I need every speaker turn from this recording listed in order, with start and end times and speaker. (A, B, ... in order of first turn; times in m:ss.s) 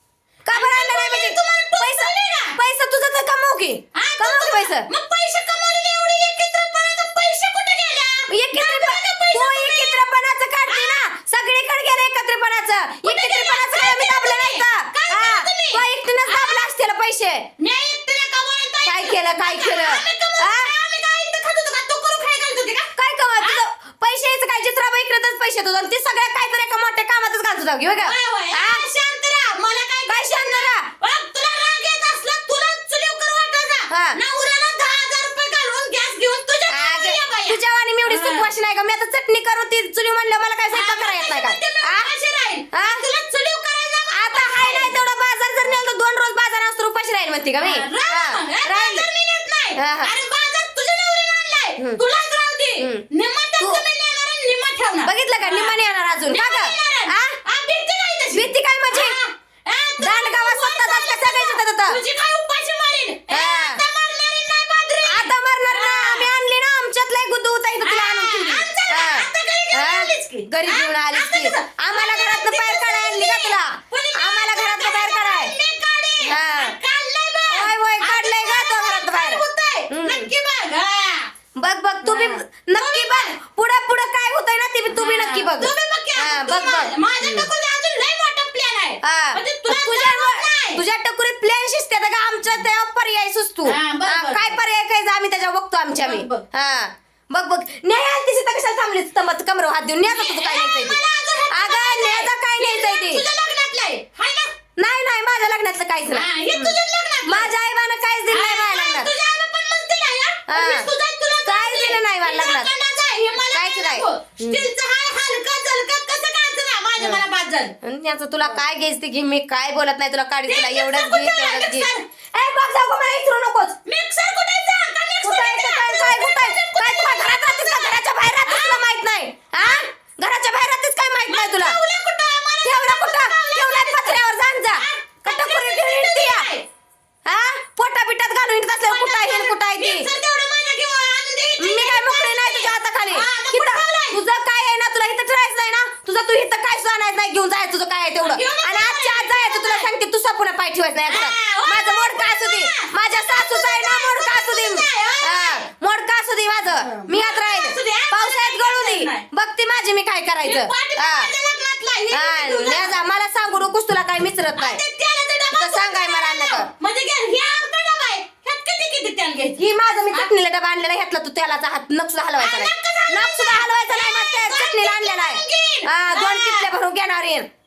0:00.5-0:04.9 A
0:00.5-0:02.6 B
0:03.9-0:10.0 B
0:08.3-0:17.4 A
0:10.6-0:11.0 B
0:13.0-0:16.6 B
0:17.6-0:23.6 B
0:18.8-0:20.7 A
0:23.0-0:28.8 A
0:28.0-0:38.5 B
0:30.1-0:30.9 A
0:33.9-0:34.2 A
0:36.7-0:42.1 A
0:40.7-0:45.1 B
0:42.7-0:43.0 A
0:44.1-0:49.1 A
0:47.6-0:55.8 B
0:49.8-0:50.1 A
0:52.8-0:53.0 A
0:55.0-0:57.4 A
0:56.3-1:06.3 B
0:58.3-0:59.2 A
1:00.0-1:02.0 A
1:03.3-1:03.8 A
1:05.0-1:15.5 A
1:07.8-1:21.3 B
1:16.2-1:16.7 A
1:17.5-1:20.3 A
1:21.6-1:27.5 A
1:22.0-1:23.4 B
1:24.9-1:30.8 B
1:29.0-1:41.0 A
1:33.6-1:34.6 B
1:36.0-1:36.4 B
1:40.0-1:44.5 B
1:41.5-1:43.2 A
1:44.8-1:49.1 A
1:46.1-1:47.5 B
1:48.3-1:57.8 B
1:50.5-1:50.9 A
1:51.4-1:52.7 A
1:53.5-1:54.6 A
1:57.8-2:03.8 A
2:00.4-2:02.0 B
2:03.8-2:08.8 B
2:05.2-2:11.8 A
2:09.6-2:09.8 B
2:11.3-2:16.6 B
2:12.6-2:16.5 A
2:17.2-2:20.1 A
2:18.8-2:24.2 B
2:21.6-2:41.3 A
2:28.2-2:29.9 B
2:31.0-2:35.6 B
2:36.7-2:39.2 B
2:40.4-2:43.0 B
2:42.1-2:44.8 A
2:44.6-2:50.3 B
2:45.5-2:46.7 A
2:49.6-2:57.5 A
2:52.4-2:56.7 B